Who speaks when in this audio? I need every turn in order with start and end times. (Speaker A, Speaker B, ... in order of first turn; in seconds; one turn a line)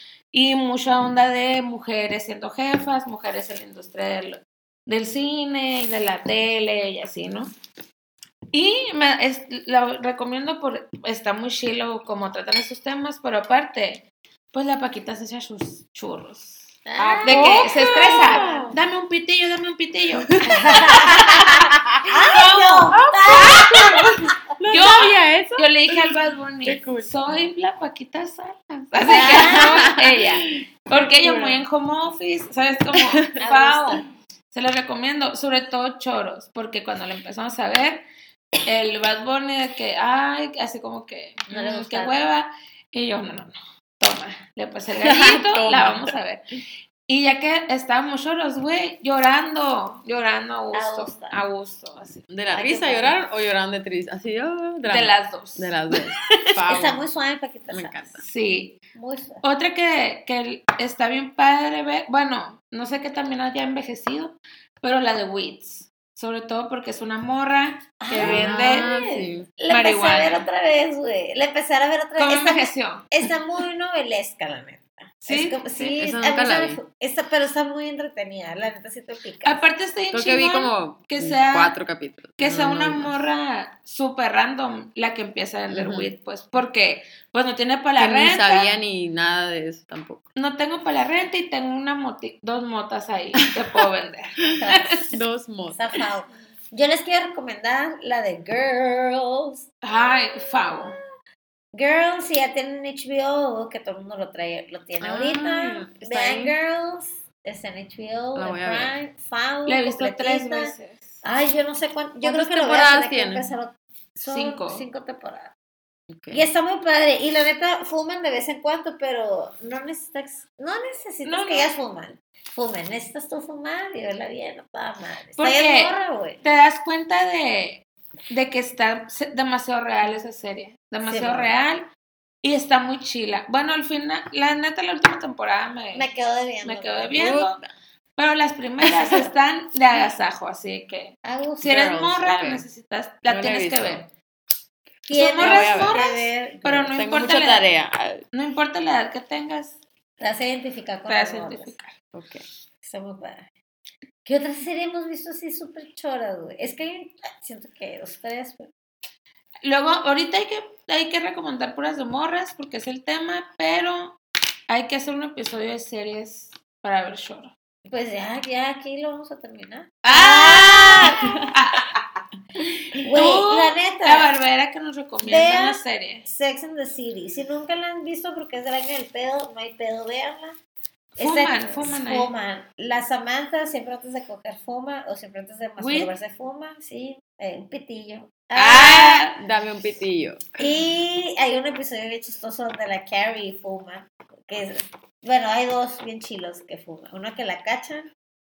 Speaker A: 0.3-7.5
Speaker A: 8.5-21.3
Speaker B: 16.9-18.8
Speaker C: 17.0-18.7
Speaker C: 20.3-21.1
Speaker B: 20.5-24.0
Speaker A: 22.1-22.9
Speaker C: 22.9-26.0
Speaker A: 24.7-38.0
Speaker C: 26.6-27.4
Speaker B: 29.0-29.9
Speaker C: 29.1-31.6
Speaker C: 32.9-33.4
Speaker B: 33.4-34.0
Speaker A: 38.6-46.4
Speaker B: 41.5-42.1
Speaker C: 45.0-46.1
Speaker A: 47.0-52.3
Speaker B: 50.7-51.4
Speaker C: 52.3-57.0
Speaker B: 52.5-53.2
Speaker A: 54.8-55.9
Speaker B: 56.6-58.2
Speaker C: 57.7-58.2
Speaker A: 58.2-58.8
Speaker B: 58.9-59.4
Speaker A: 59.4-68.9
Speaker B: 68.0-79.6
Speaker C: 68.2-69.5
Speaker A: 69.7-70.4
Speaker A: 72.2-73.3
Speaker A: 75.3-75.8
Speaker C: 75.9-76.8
Speaker A: 79.4-81.7
Speaker C: 80.1-83.1
Speaker A: 82.4-88.7
Speaker C: 85.7-86.1
Speaker C: 88.0-90.3
Speaker A: 90.3-95.0
Speaker B: 94.6-95.1
Speaker C: 95.1-95.9
Speaker B: 95.7-99.7
Speaker A: 99.8-101.0
Speaker B: 100.7-101.0
Speaker B: 101.7-115.5
Speaker C: 105.0-106.5
Speaker C: 108.3-108.9
Speaker A: 109.7-111.2
Speaker C: 112.2-113.5
Speaker A: 114.3-114.8
Speaker C: 116.1-116.4
Speaker B: 116.3-126.4
Speaker A: 121.2-121.7
Speaker A: 125.4-131.9
Speaker B: 131.1-131.5
Speaker A: 132.4-136.1
Speaker B: 135.9-137.4
Speaker A: 136.6-137.6
Speaker C: 137.2-137.7
Speaker A: 138.2-144.1
Speaker B: 141.2-141.8
Speaker C: 141.6-142.7
Speaker C: 143.3-144.1
Speaker B: 145.1-146.9
Speaker A: 145.1-147.7
Speaker C: 145.3-146.0
Speaker C: 146.9-148.2
Speaker A: 148.3-149.8
Speaker B: 150.2-151.7
Speaker A: 151.1-151.9
Speaker C: 152.1-152.4
Speaker B: 152.8-153.5
Speaker B: 154.2-158.7
Speaker A: 159.6-167.5
Speaker B: 167.8-171.5
Speaker A: 170.0-172.2
Speaker B: 173.0-174.3
Speaker A: 173.1-176.2
Speaker B: 175.2-180.6
Speaker A: 181.2-182.3
Speaker B: 181.2-189.3
Speaker A: 185.8-186.1
Speaker A: 188.5-189.3
Speaker C: 189.3-190.5
Speaker B: 190.6-198.1